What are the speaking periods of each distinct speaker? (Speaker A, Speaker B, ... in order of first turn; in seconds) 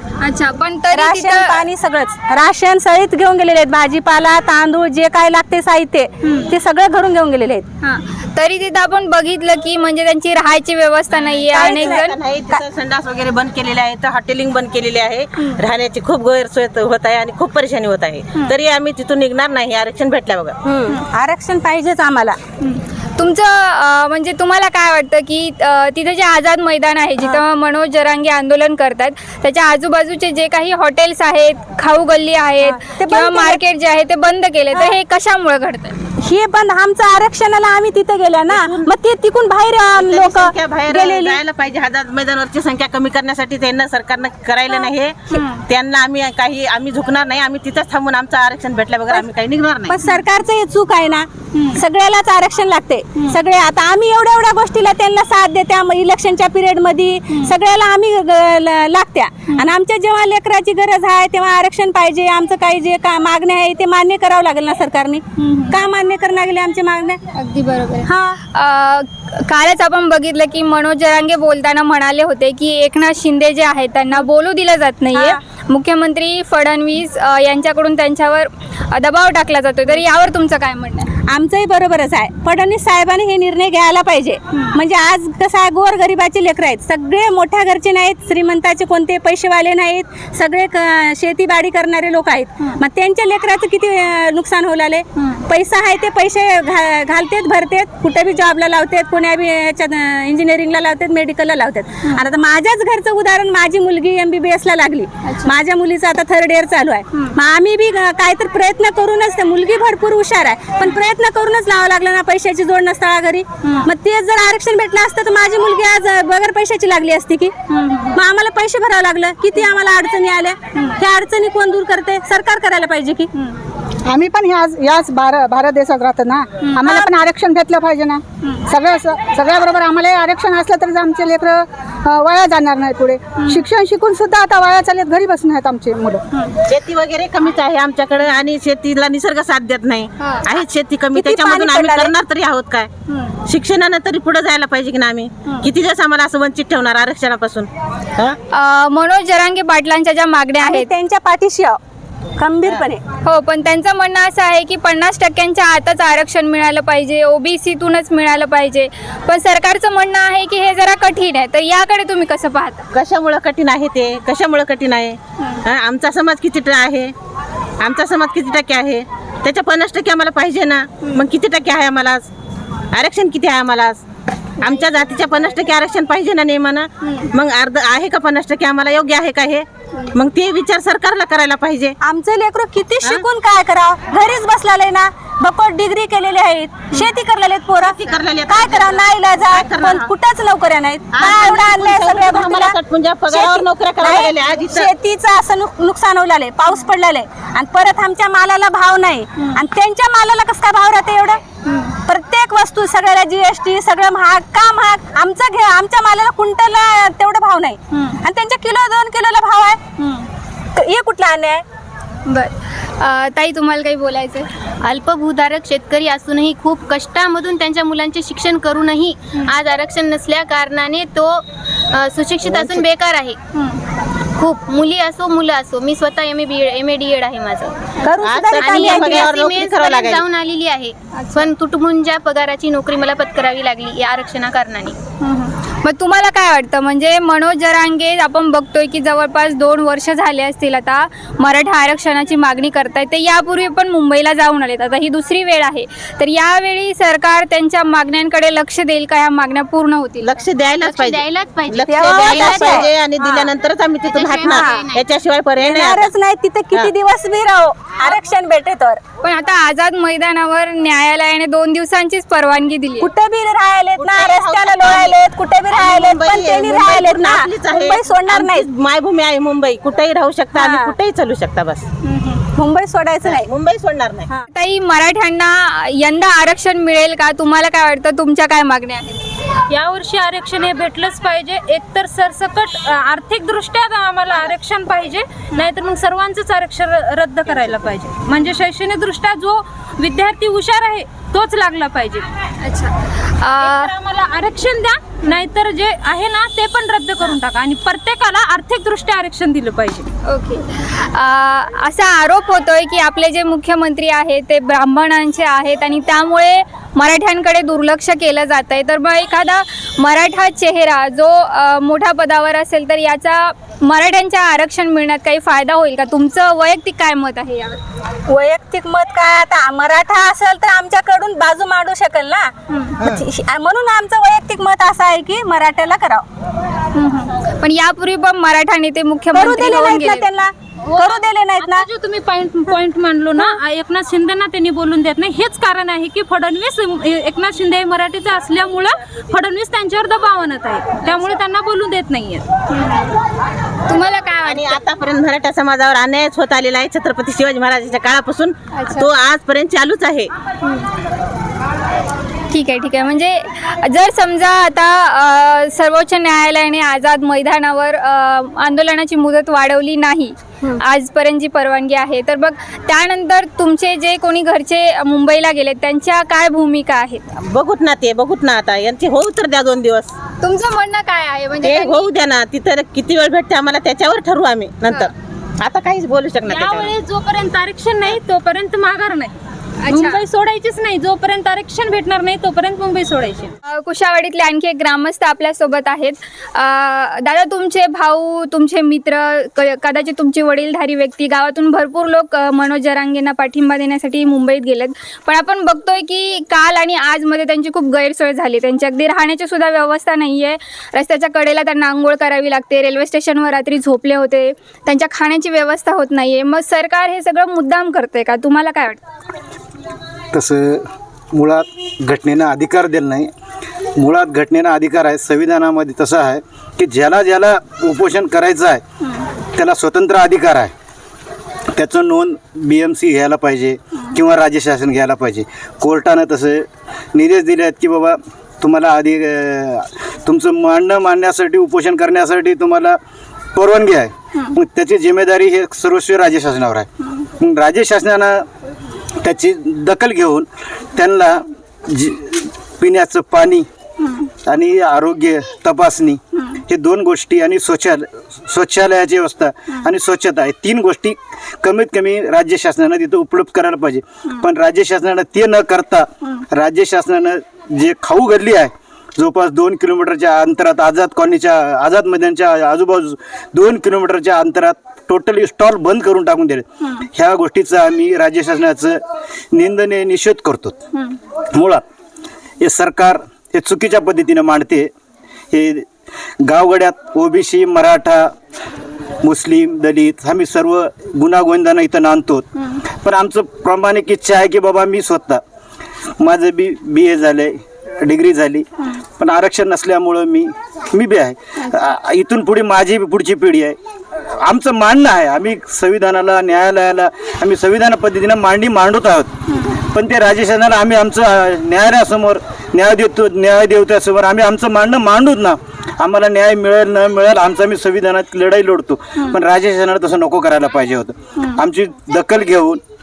Speaker A: 0.2-1.6, 6.2-6.5, 7.8-12.2, 22.6-36.0, 45.3-45.6, 51.5-51.8, 57.3-57.5, 65.4-65.8, 67.3-81.1, 84.5-84.8, 95.2-95.4, 105.2-105.5, 113.6-113.9, 117.7-118.2, 120.8-121.0, 126.6-127.0, 133.4-133.7, 140.2-140.5, 143.1-143.3, 148.5-150.9, 153.2-162.9, 201.7-201.9, 207.9-208.2, 210.0-210.3, 212.3-214.5, 223.6-223.8, 231.2-231.4, 235.2-250.4, 259.2-263.1, 272.1-272.4, 274.5-279.2, 292.6-293.9, 300.3-317.8, 322.7-323.0, 326.9-330.3, 342.7-343.1, 343.9-344.8, 348.7-349.1, 352.5-367.4, 370.4-372.1, 379.8-380.2, 383.7-409.1, 444.0-444.3, 446.4-446.6, 466.8-467.1, 499.5-499.8
Speaker B: 0.9-7.7, 11.5-12.0, 20.6-22.4, 32.7-33.6, 36.2-41.4, 49.9-67.2, 68.0-68.4, 81.3-117.5, 118.1-123.3, 141.1-142.1, 150.6-151.8, 152.4-153.0, 182.0-192.8, 193.3-201.4, 202.1-209.8, 210.8-211.6, 228.0-229.4, 251.9-253.5, 254.4-254.9, 255.6-259.0, 263.0-268.7, 270.5-271.0, 272.5-273.5, 318.3-326.3, 329.3-331.9
Speaker C: 11.2-20.6, 38.5-38.9, 40.0-50.0, 136.7-142.9, 143.5-148.4, 162.9-167.1, 167.8-172.3, 172.9-174.0, 174.6-182.0, 187.8-190.1, 191.1-194.9, 228.2-230.2, 250.2-256.1, 264.0-265.2, 265.7-271.9, 273.2-274.3, 344.4-350.3, 367.4-370.1, 371.6-376.9
Speaker D: 124.1-136.2
Speaker E: 214.8-223.4, 224.4-227.8, 228.5-235.0, 250.8-252.9, 254.1-255.0
Speaker F: 279.7-292.3, 293.6-300.1, 330.8-342.5, 376.5-379.4, 379.9-383.5
Speaker G: 410.3-413.3, 414.0-418.8, 419.6-420.7, 421.7-433.0, 433.5-438.5, 439.2-443.7, 444.4-469.0, 469.5-470.8, 471.5-471.8, 472.6-474.9, 475.5-475.9, 476.4-478.3, 479.2-485.4, 486.2-493.8, 494.4-499.3, 499.9-512.8